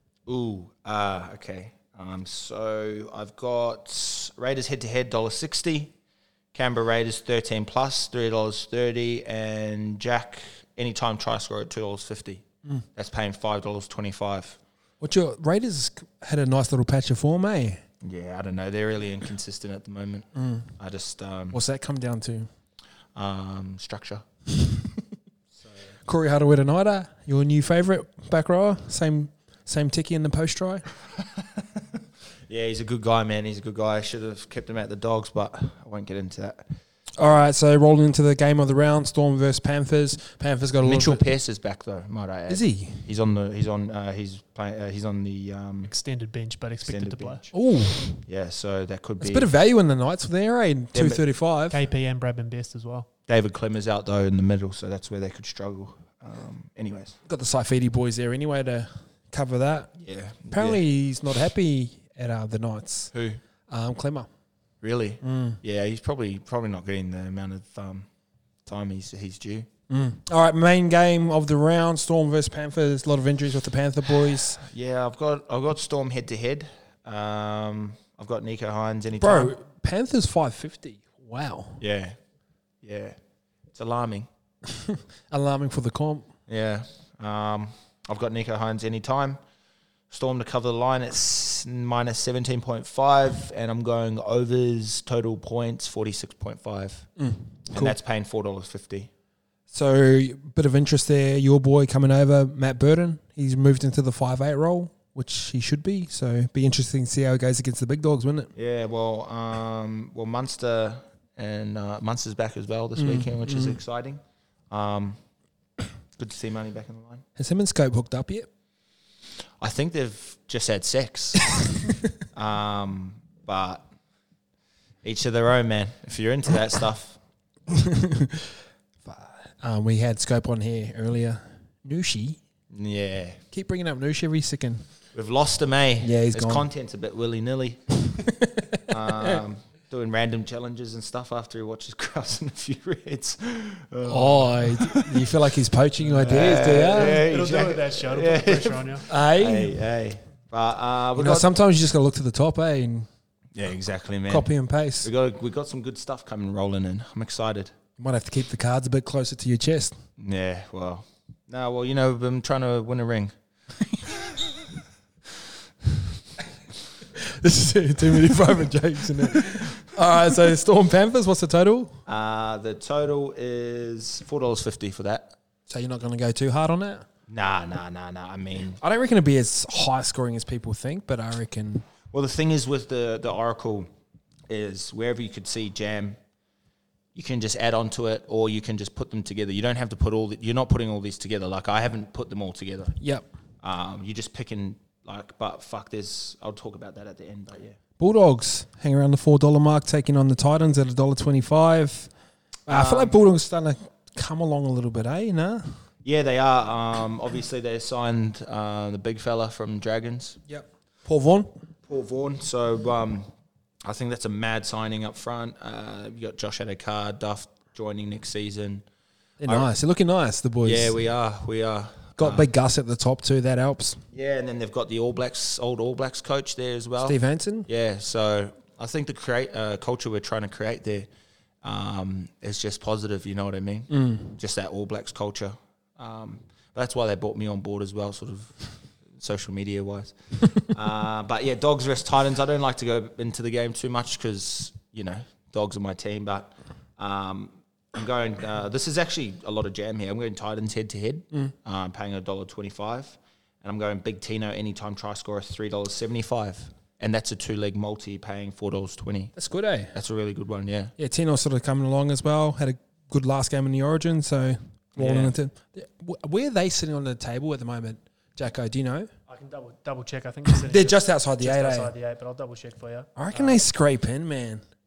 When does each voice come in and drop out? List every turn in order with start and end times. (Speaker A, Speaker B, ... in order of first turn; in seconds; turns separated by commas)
Speaker A: 0.3-5.9, Speaker A: 6.5-12.4, Speaker A: 13.0-14.6, Speaker B: 15.0-17.8, Speaker A: 18.0-20.3, Speaker B: 20.4-20.7, Speaker A: 20.8-21.6, Speaker B: 21.5-22.5, Speaker A: 23.2-24.2, Speaker B: 26.1-30.9, Speaker A: 31.4-31.8, Speaker A: 32.5-36.6, Speaker B: 37.2-41.2, Speaker A: 40.8-45.9, Speaker B: 42.5-43.1, Speaker C: 45.9-47.5, Speaker A: 46.9-47.5, Speaker B: 47.5-48.2, Speaker A: 48.3-49.5, Speaker B: 49.2-51.8, Speaker A: 50.9-51.2, Speaker C: 51.7-53.1, Speaker A: 53.3-57.2, Speaker B: 57.3-59.9, Speaker A: 60.0-60.8, Speaker B: 60.5-63.1, Speaker A: 63.1-63.4, Speaker B: 63.7-64.3, Speaker A: 64.8-68.1, Speaker B: 65.2-65.6, Speaker A: 68.7-69.7, Speaker B: 69.9-74.6, Speaker A: 74.6-79.5, Speaker B: 79.2-81.8, Speaker A: 81.8-82.2, Speaker A: 82.8-83.2, Speaker A: 83.7-84.3, Speaker B: 84.7-86.3, Speaker A: 86.5-89.4, Speaker A: 90.1-97.1, Speaker B: 97.2-98.0, Speaker A: 97.7-99.1, Speaker B: 99.7-108.5, Speaker A: 108.6-115.2, Speaker B: 113.0-113.8, Speaker A: 116.2-117.2, Speaker B: 117.4-118.5, Speaker A: 119.6-121.5, Speaker A: 122.3-123.8, Speaker A: 125.0-127.2, Speaker B: 127.7-128.5, Speaker B: 129.1-132.4, Speaker A: 132.7-133.4, Speaker B: 133.5-134.8, Speaker A: 135.1-137.8, Speaker B: 136.0-136.7, Speaker B: 138.2-139.4, Speaker A: 138.9-145.3, Speaker B: 144.1-147.3, Speaker A: 146.1-151.5, Speaker C: 146.8-149.1, Speaker B: 149.1-149.8, Speaker B: 151.2-153.1, Speaker A: 153.5-154.5, Speaker B: 154.3-155.1, Speaker A: 155.0-157.7, Speaker B: 158.0-160.0, Speaker A: 160.2-163.3, Speaker A: 163.9-164.4, Speaker B: 167.2-172.0, Speaker A: 172.1-175.3, Speaker B: 175.7-177.1, Speaker A: 177.3-178.8, Speaker B: 178.8-181.9, Speaker A: 182.1-183.9, Speaker A: 184.5-186.2, Speaker A: 187.2-193.0, Speaker B: 193.0-193.3, Speaker A: 193.6-197.8, Speaker B: 198.0-202.1, Speaker B: 202.7-205.6, Speaker A: 202.7-203.2, Speaker A: 206.0-210.4, Speaker B: 210.5-211.5, Speaker A: 211.9-213.3, Speaker A: 213.8-218.8, Speaker B: 219.4-221.0, Speaker A: 220.7-222.5, Speaker B: 222.2-224.0, Speaker A: 224.1-231.1, Speaker B: 227.0-227.7, Speaker A: 231.6-259.3, Speaker B: 233.9-234.4, Speaker B: 259.4-259.9, Speaker A: 259.9-260.9, Speaker B: 261.0-269.1, Speaker A: 265.0-265.3, Speaker C: 269.3-273.6, Speaker B: 270.5-271.9, Speaker B: 273.2-274.6